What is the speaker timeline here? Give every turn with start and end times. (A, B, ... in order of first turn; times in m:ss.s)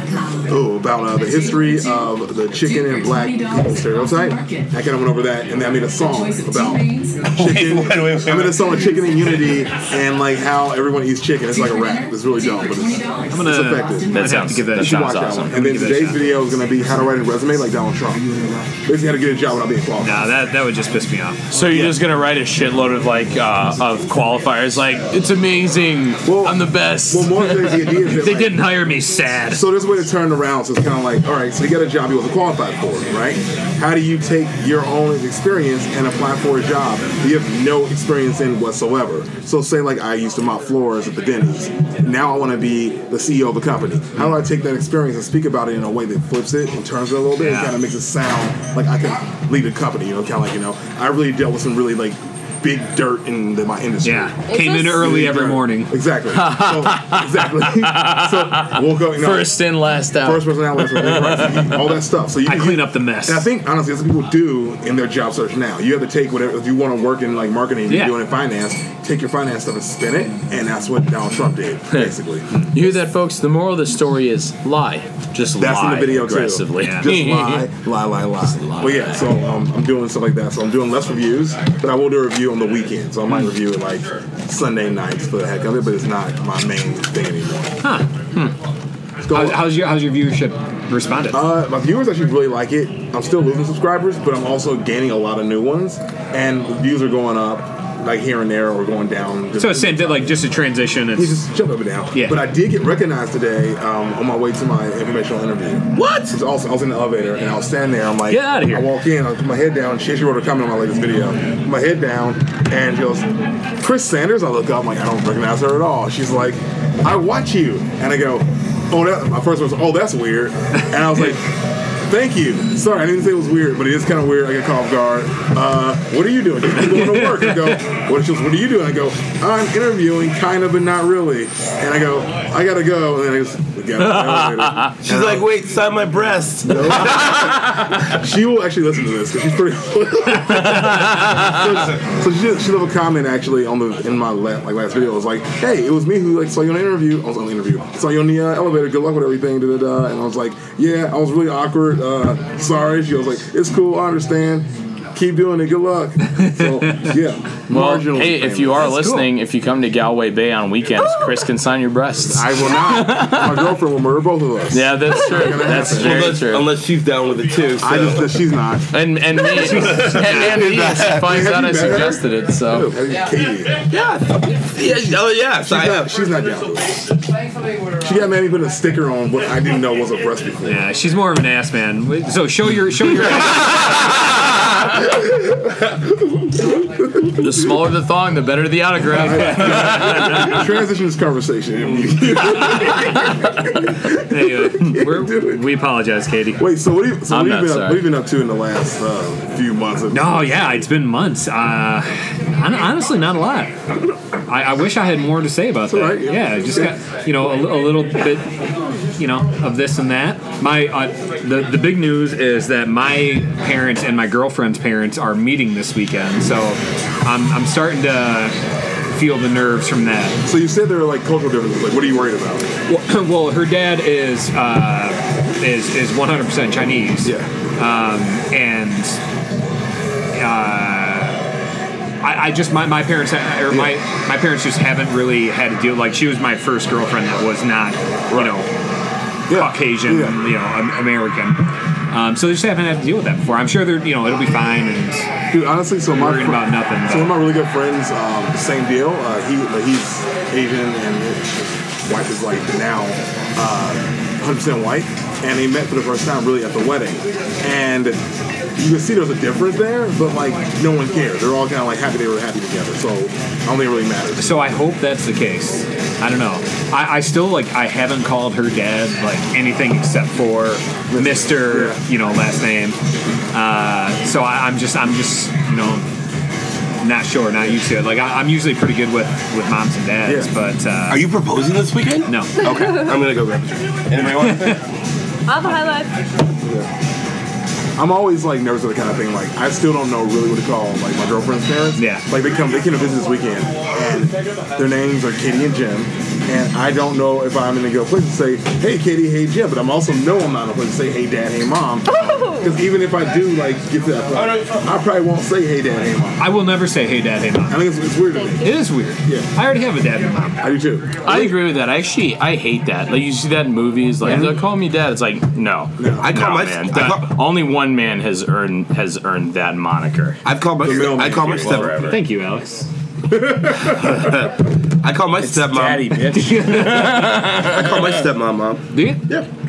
0:00.5-0:14.1 A
0:07.3-0:08.9 B
0:13.3-0:16.2 C
0:14.1-0:15.5 D
0:14.7-0:18.3 A
0:18.8-0:20.3 A
0:20.0-0:21.4 C
0:21.5-0:28.1 D
0:21.6-0:22.0 A
0:26.2-0:28.8 A
0:28.1-0:29.6 C
0:29.5-0:54.4 A
0:47.4-0:47.8 C
0:54.0-0:55.9 C
0:54.5-0:55.1 E
0:54.9-0:59.6 A
0:56.3-1:01.8 D
1:00.2-1:12.6 A
1:02.4-1:03.4 C
1:07.9-1:08.2 C
1:12.7-1:17.7 D
1:15.6-1:27.9 A
1:16.8-1:17.1 C
1:18.4-1:19.3 D
1:27.8-1:28.1 C
1:29.2-1:29.8 A
1:29.3-1:31.5 C
1:31.3-1:40.4 A
1:39.5-1:41.4 C
1:41.1-2:15.5 A
1:42.1-1:42.4 C
1:45.9-1:46.3 D
1:48.3-1:48.9 C
2:06.8-2:07.8 C
2:14.0-2:15.0 D
2:15.0-2:17.6 B
2:16.6-2:38.9 A
2:20.7-2:21.7 D
2:36.3-2:37.1 C
2:37.7-2:43.8 D
2:38.8-2:39.3 C
2:42.2-2:46.4 A
2:44.7-2:46.7 D
2:45.8-2:48.3 B
2:47.8-2:48.9 A
2:48.9-2:53.0 D
2:49.4-2:50.7 C
2:49.9-2:51.3 B
2:50.3-2:53.7 A
2:53.9-2:56.1 B
2:55.6-2:57.1 A
2:58.0-3:00.9 A
3:00.6-3:04.0 C
3:07.2-3:07.4 A
3:07.4-3:10.7 D
3:09.0-3:10.1 C
3:09.0-3:15.6 A
3:12.4-3:13.5 D
3:14.2-3:16.6 C
3:16.6-3:20.8 A
3:17.3-3:18.0 D
3:20.1-3:23.8 C
3:24.4-3:28.5 C
3:25.9-3:26.9 A
3:29.2-3:38.6 C
3:39.1-3:40.4 C
3:40.4-3:42.7 A
3:42.9-3:49.2 C
3:47.2-3:47.5 A
3:50.3-3:51.5 C
3:52.2-3:58.7 C
3:53.7-3:54.0 A
3:58.3-3:58.5 A
3:59.5-4:00.4 A
3:59.5-4:05.3 C
4:05.5-4:18.2 A
4:06.1-4:07.4 C
4:18.8-4:24.8 A
4:24.4-4:33.0 C
4:31.1-4:32.0 A
4:33.5-4:36.1 C
4:37.0-4:41.3 C
4:40.2-4:40.5 A
4:41.1-4:44.8 B
4:42.2-4:42.6 C
4:42.6-4:43.2 E
4:44.3-4:44.8 C
4:45.4-4:46.1 E
4:46.6-4:46.9 A
4:48.0-5:06.5 A
4:52.0-4:52.2 C
5:02.0-5:02.7 E
5:04.3-5:04.9 B
5:06.4-5:07.8 C
5:07.7-5:09.5 A
5:08.3-5:08.7 E
5:08.6-5:10.7 C
5:10.6-5:11.5 A
5:11.2-5:22.2 D
5:14.2-5:14.5 C
5:14.2-5:14.6 A
5:16.0-5:16.3 A
5:16.2-5:17.3 B
5:20.4-5:22.0 B
5:20.8-5:21.9 A
5:22.0-5:22.9 C
5:23.3-5:24.3 A
5:23.9-5:26.1 B
5:25.4-5:28.2 D
5:26.2-5:27.5 C
5:27.5-5:29.5 B
5:28.9-5:29.3 C